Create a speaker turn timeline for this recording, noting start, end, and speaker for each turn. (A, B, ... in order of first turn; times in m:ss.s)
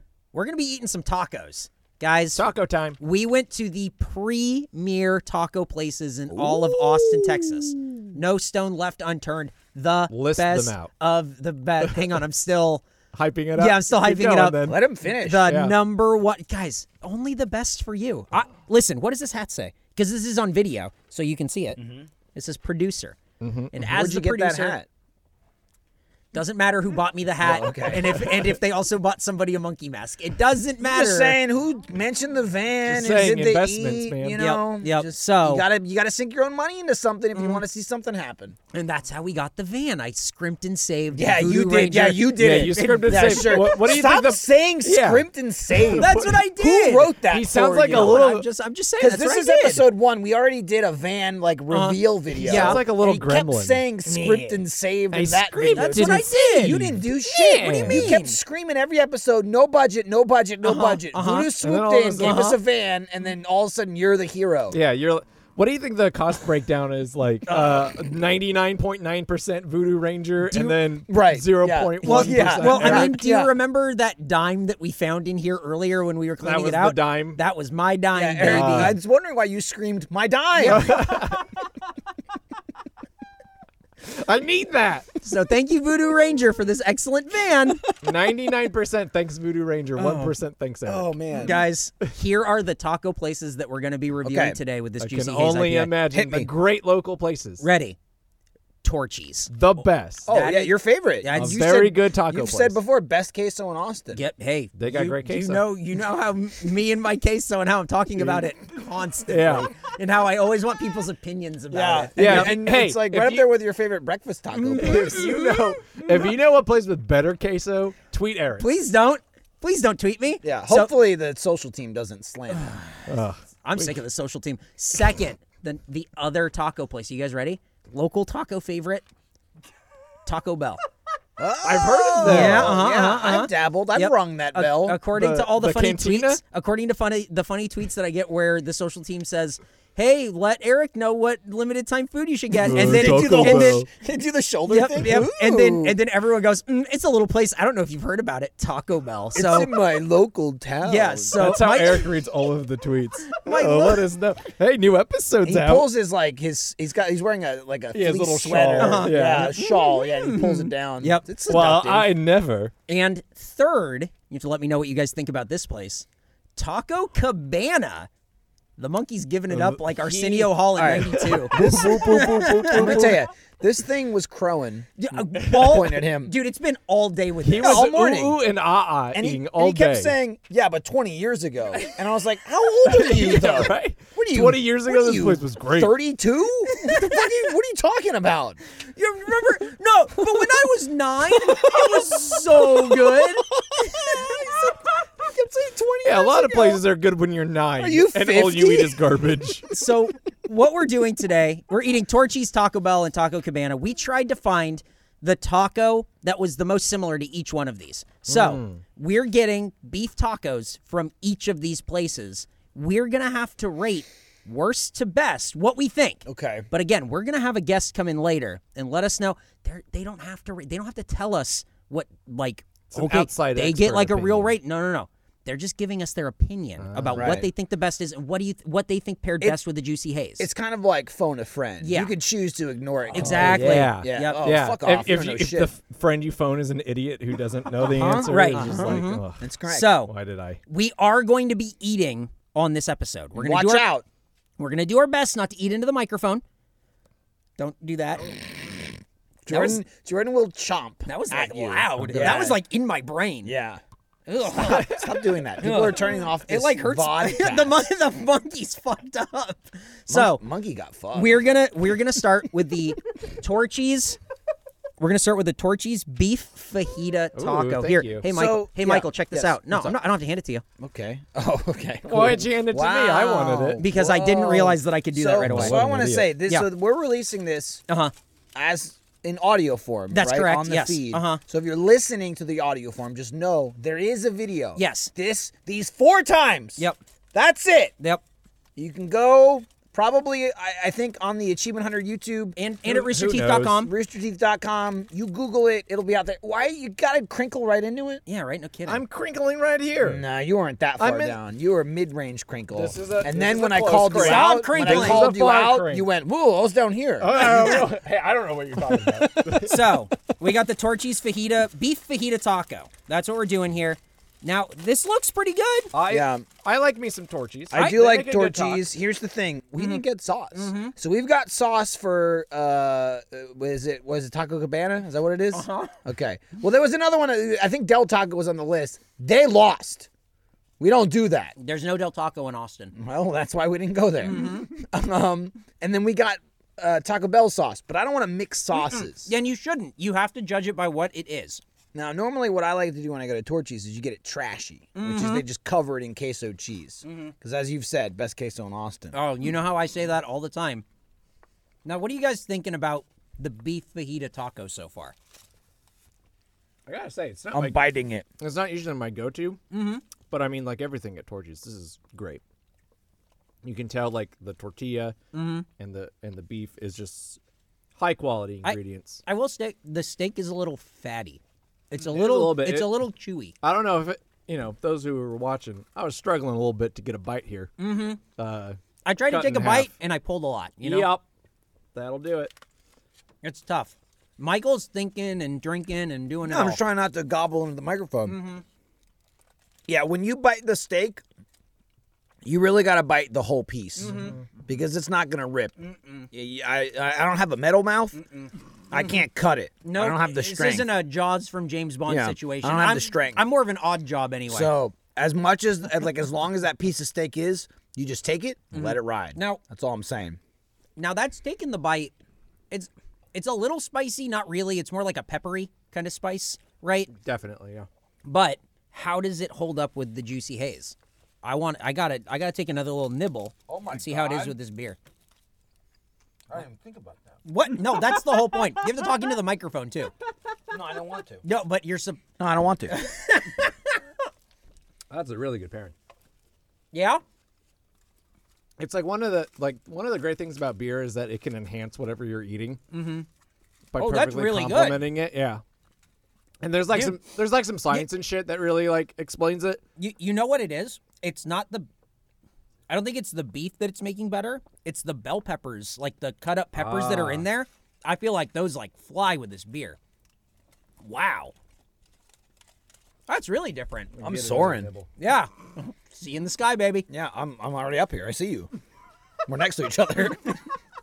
0:00.3-0:02.4 A
0:02.3-0:03.0 B
0:03.0-0:12.8 A
0:06.3-0:07.1 C
0:10.1-0:10.9 B
0:11.8-0:12.1 B
0:13.1-0:14.8 B
0:13.6-0:21.8 A
0:14.6-0:15.5 C
0:15.4-0:15.8 B
0:21.8-0:22.1 C
0:22.3-0:23.2 A
0:23.4-0:23.9 B
0:23.7-0:24.7 A
0:23.8-0:24.9 C
0:26.3-0:31.4 A
0:27.4-0:28.4 C
0:30.8-0:38.6 C
0:32.8-0:34.4 B
0:34.3-0:35.6 A
0:37.3-0:37.6 A
0:38.7-0:43.8 A
0:41.1-0:48.3 C
0:42.3-0:46.4 B
0:45.9-0:49.9 A
0:47.3-0:48.4 B
0:49.0-1:04.8 C
0:51.7-0:52.8 A
0:52.4-0:58.2 B
0:55.7-0:56.8 A
0:57.6-0:58.4 A
1:00.6-1:01.5 A
1:01.6-1:02.5 B
1:02.2-1:02.6 A
1:04.7-1:13.2 B
1:07.5-1:07.8 A
1:10.5-1:10.8 A
1:11.1-1:13.5 C
1:12.0-1:18.9 A
1:16.4-1:17.4 B
1:18.1-1:21.0 C
1:18.4-1:19.0 B
1:20.6-1:21.1 A
1:20.6-1:21.4 B
1:24.0-1:25.1 B
1:25.2-1:27.8 A
1:28.0-1:31.1 B
1:30.0-1:30.3 A
1:30.8-1:31.6 C
1:31.3-1:35.9 A
1:34.2-1:34.6 C
1:35.0-1:37.6 B
1:36.1-1:36.5 C
1:37.6-1:38.0 A
1:38.8-1:39.5 A
1:39.5-1:40.3 B
1:40.2-1:44.2 C
1:40.3-1:41.6 A
1:41.3-1:42.8 B
1:44.1-1:52.6 A
1:44.8-1:45.6 B
1:48.2-1:48.4 B
1:49.3-1:49.7 B
1:51.7-1:55.4 C
1:52.2-1:53.5 B
1:54.5-1:56.2 A
1:54.7-1:58.7 B
1:58.6-2:00.9 A
2:00.4-2:02.7 C
2:02.5-2:03.0 A
2:03.1-2:04.0 B
2:03.6-2:09.0 A
2:10.2-2:10.8 A
2:11.4-2:15.0 C
2:11.6-2:12.8 B
2:12.2-2:23.8 A
2:15.1-2:16.4 B
2:22.6-2:23.9 B
2:22.6-2:26.0 C
2:24.7-2:29.7 A
2:29.3-2:31.8 C
2:30.8-2:32.1 A
2:31.4-2:35.9 B
2:33.3-2:34.0 A
2:35.4-2:42.2 C
2:37.9-2:39.6 B
2:38.8-2:41.3 A
2:41.5-2:42.7 B
2:42.9-2:46.0 A
2:46.6-2:48.1 A
2:48.8-2:53.2 A
2:49.5-2:53.2 B
2:50.8-2:56.3 C
2:55.0-2:57.9 A
2:55.3-2:55.8 B
2:57.4-3:00.1 B
2:57.6-2:58.4 C
2:59.1-3:08.6 C
3:02.8-3:05.9 B
3:06.7-3:07.2 A
3:08.9-3:14.3 A
3:11.6-3:16.8 C
3:16.0-3:19.7 B
3:17.8-3:19.7 C
3:19.7-3:50.5 A
3:28.3-3:28.8 B
3:36.2-3:36.7 C
3:42.9-3:44.5 B
3:46.8-3:47.4 B
3:47.1-3:47.5 C
3:50.4-3:55.7 C
3:51.8-3:52.1 A
3:53.1-3:54.5 A
3:53.1-4:00.6 B
3:57.8-4:00.0 C
3:58.2-4:00.1 A
4:00.7-4:03.9 A
4:03.3-4:04.0 C
4:04.6-4:06.4 A
4:07.6-4:08.3 A
4:09.4-4:12.6 C
4:09.5-4:09.8 A
4:11.0-4:13.5 A
4:12.0-4:12.4 B
4:13.4-4:13.8 C
4:14.3-4:15.0 A
4:14.5-4:17.8 C
4:15.6-4:20.4 A
4:20.1-4:21.4 C
4:21.1-4:24.2 A
4:25.0-4:30.6 A
4:27.4-4:28.3 B
4:28.2-4:29.6 C
4:30.8-4:37.8 C
4:32.0-4:33.8 B
4:33.8-4:36.7 A
4:35.4-4:36.3 B
4:37.9-4:38.1 A
4:38.5-4:47.9 C
4:40.1-4:41.4 A
4:44.8-4:45.1 A
4:48.8-4:52.6 C
4:52.6-4:53.9 A
4:52.8-4:53.8 B
4:53.8-4:58.2 C
4:58.2-4:59.0 A
4:58.9-5:00.2 B
5:00.0-5:07.9 C
5:01.0-5:01.4 B
5:02.7-5:06.1 B
5:04.2-5:05.3 A
5:07.2-5:10.0 B
5:07.4-5:07.8 A
5:09.6-5:15.9 A
5:15.9-5:18.8 B
5:16.1-5:16.4 C
5:17.7-5:30.1 C
5:19.8-5:20.0 A
5:20.5-5:20.9 A
5:25.5-5:26.0 A
5:30.8-5:31.5 C
5:31.6-5:32.9 A
5:32.9-5:39.3 C
5:34.2-5:34.7 A
5:38.7-5:41.6 A
5:41.9-5:49.1 C
5:44.9-5:45.4 A
5:47.0-5:47.3 A
5:49.1-5:50.8 A
5:51.8-5:55.1 A
5:56.8-5:57.8 B
5:57.5-5:58.2 C
5:58.4-6:02.4 B
5:59.7-6:00.0 A
6:03.6-6:05.2 B
6:05.3-6:05.7 A
6:05.8-6:07.4 B
6:08.0-6:09.2 B
6:08.6-6:11.4 A
6:11.9-6:13.5 A
6:12.0-6:13.0 B
6:13.6-6:19.9 B
6:17.8-6:18.2 A
6:19.0-6:21.1 A
6:20.8-6:21.2 B
6:21.9-6:22.5 B
6:23.4-6:26.8 A
6:26.4-6:28.4 C
6:28.2-6:28.6 A
6:29.9-6:31.2 C
6:32.4-6:35.7 C
6:34.0-6:34.4 A
6:35.8-6:36.3 A
6:36.3-6:38.2 C
6:38.2-6:39.1 A
6:38.9-6:40.9 C
6:39.8-6:44.7 A
6:42.1-6:43.4 C
6:44.5-6:50.4 C
6:48.7-6:49.6 A
6:51.0-6:52.1 A
6:52.7-6:57.1 A
6:57.2-6:57.9 B
6:58.2-7:05.0 A
7:03.7-7:04.6 C
7:06.5-7:07.4 C
7:07.4-7:10.1 A
7:10.7-7:11.4 C
7:11.4-7:12.2 A
7:12.4-7:12.9 C
7:12.9-7:14.0 A
7:15.1-7:15.9 B
7:16.9-7:17.2 A
7:18.8-7:22.8 B
7:22.9-7:23.2 A
7:23.9-7:25.6 B
7:24.0-7:25.0 A
7:26.6-7:29.8 B
7:26.9-7:27.2 A
7:30.0-7:31.9 A
7:32.9-7:40.0 A
7:36.8-7:37.4 B
7:41.0-7:41.5 A
7:43.3-7:44.1 A
7:44.1-7:45.1 B
7:44.2-7:44.9 C
7:45.2-7:47.0 A
7:47.1-7:48.7 C
7:49.5-7:50.6 C